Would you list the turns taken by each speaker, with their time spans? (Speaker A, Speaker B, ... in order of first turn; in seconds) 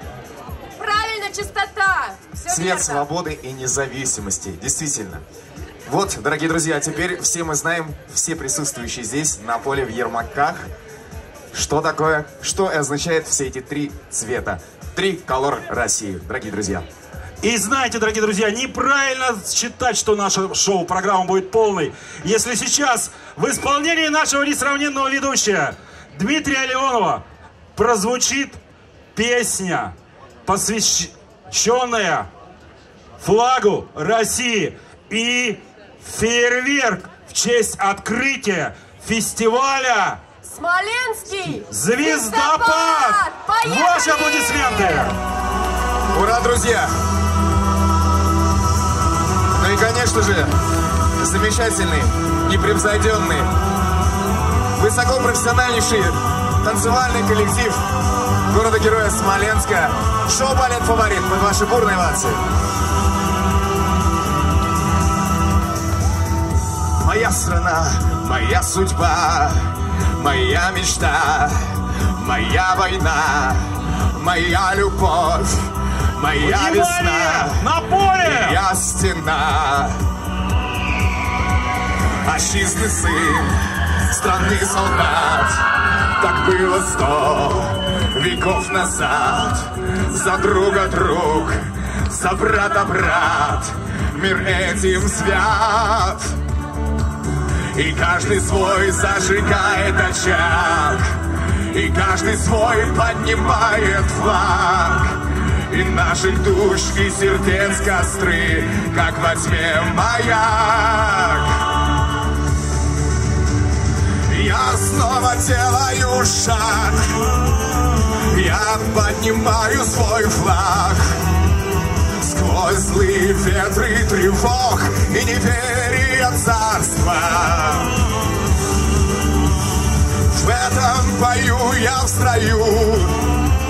Speaker A: 0.8-3.0, 40.4-45.1
Speaker B: 2.5-5.2, 5.8-10.7, 11.5-16.9, 46.1-46.9, 49.5-50.5, 51.2-53.5, 54.8-57.8, 58.5-62.4, 67.0-77.7, 78.2-80.0, 82.2-96.4, 97.7-111.8, 114.2-117.3, 118.2-121.2, 122.2-128.0, 130.3-133.3
Speaker C: 17.4-27.2, 27.7-28.6, 29.1-29.9, 30.4-32.3, 33.2-40.2, 41.7-45.2, 76.3-78.6